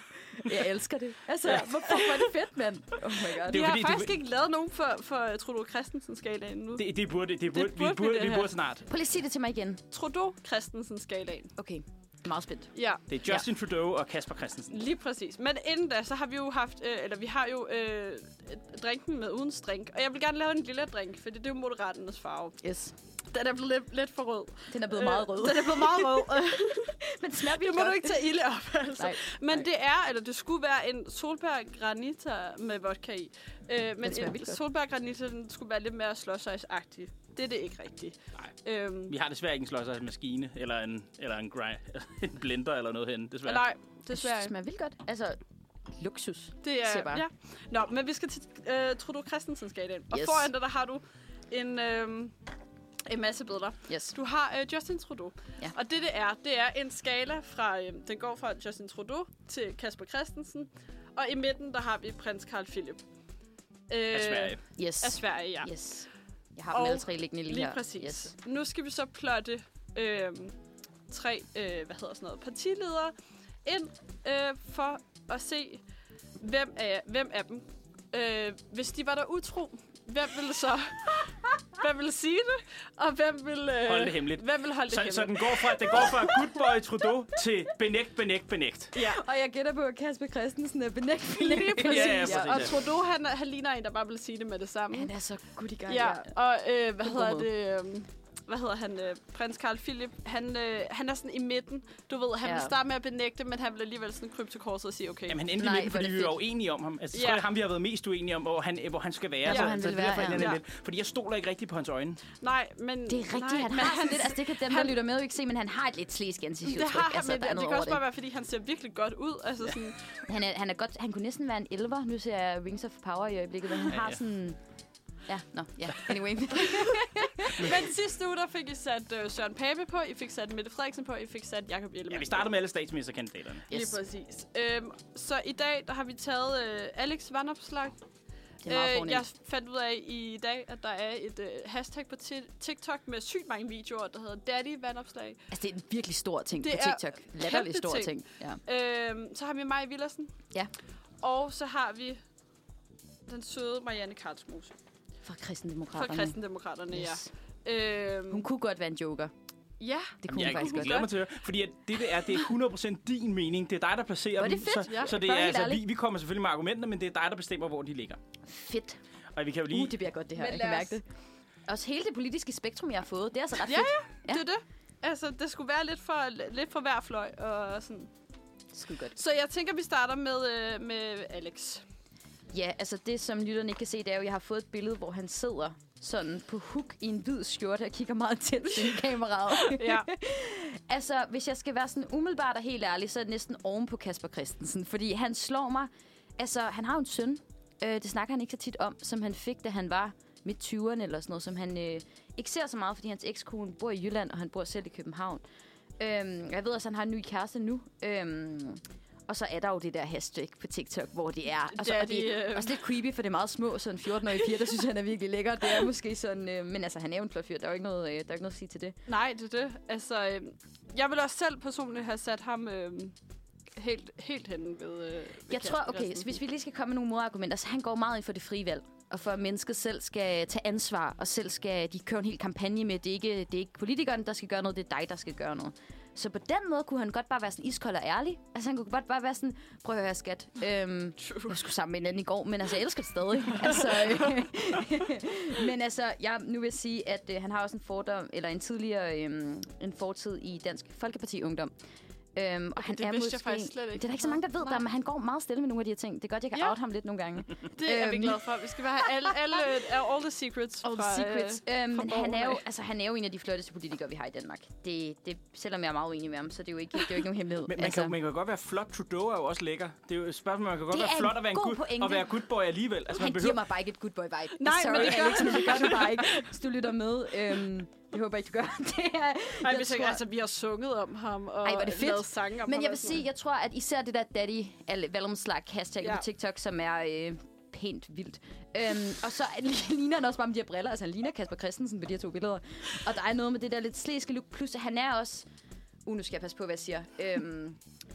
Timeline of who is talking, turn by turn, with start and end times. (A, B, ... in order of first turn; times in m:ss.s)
0:00.4-0:03.7 A
0:03.4-0:04.1 B
0:03.5-0:06.9 C
0:06.8-0:08.8 B
0:07.5-0:08.5 C
0:08.9-0:09.8 A
0:09.9-0:11.5 C
0:11.6-0:12.7 A
0:12.7-0:13.0 C
0:13.1-0:14.8 B
0:14.7-0:22.6 C
0:22.6-0:22.9 A
0:23.3-0:39.1 C
0:24.7-0:28.3 A
0:29.0-0:29.6 A
0:34.0-0:34.6 A
0:39.1-0:43.6 B
0:43.4-0:44.5 C
0:44.1-0:45.4 A
0:45.9-0:47.2 A
0:46.6-0:52.3 C
0:50.1-0:50.5 A
0:53.0-1:03.0 C
0:53.9-0:54.1 A
1:03.9-1:05.7 C
1:04.1-1:04.6 B
1:04.8-1:08.3 A
1:06.7-1:10.6 C
1:11.1-1:13.1 C
1:13.6-1:15.8 C
1:16.4-1:26.4 C
1:23.8-1:28.9 B
1:28.9-1:29.2 C
1:28.9-1:32.7 A
1:31.4-1:35.1 C
1:31.8-1:32.7 B
1:34.9-1:36.3 A
1:35.9-1:45.4 C
1:37.0-1:37.5 A
1:42.4-1:42.7 A
1:45.3-1:52.2 B
1:45.6-1:46.4 A
1:47.1-1:47.4 C
1:49.4-1:49.8 C
1:49.5-1:50.5 A
1:50.3-1:50.6 C
1:52.4-1:55.0 C
1:53.1-1:58.0 A
1:56.6-2:00.0 C
2:00.2-2:04.6 A
2:03.9-2:04.2 B
2:05.3-2:07.8 A
2:07.4-2:12.5 C
2:12.1-2:13.7 B
2:13.7-2:14.0 A
2:13.7-2:18.0 C
2:18.6-2:19.2 A
2:18.7-2:25.4 C
2:25.5-2:28.6 A
2:26.6-2:30.3 C
2:31.2-2:32.2 C
2:33.3-2:34.7 C
2:35.2-2:36.4 A
2:35.9-2:38.4 C
2:36.9-2:37.3 A
2:38.3-2:39.3 A
2:39.8-2:41.1 C
2:40.2-2:41.0 A
2:40.3-2:48.2 B
2:44.4-2:45.8 A
2:44.8-2:45.1 C
2:48.5-2:49.0 A
2:49.3-2:49.9 B
2:49.7-2:51.0 A
2:50.3-2:51.0 C
2:51.7-2:54.4 A
2:53.6-2:58.1 C
2:58.7-2:59.2 A
2:59.1-3:01.8 C
3:02.5-3:25.4 A
3:09.6-3:10.1 C
3:26.0-3:39.0 A
3:31.7-3:32.8 C
3:39.1-3:43.1 C
3:43.8-3:46.4 C
3:45.5-4:11.7 A
4:01.2-4:01.6 C
4:12.3-4:18.4 A
4:12.8-4:14.8 C
4:17.7-4:22.6 C
4:20.8-4:28.1 A
4:27.6-4:33.6 B
4:30.9-4:32.3 A
4:33.1-4:40.2 A
4:34.6-4:36.4 C
4:39.6-4:43.2 C
4:41.6-4:55.4 A
4:56.0-4:57.8 A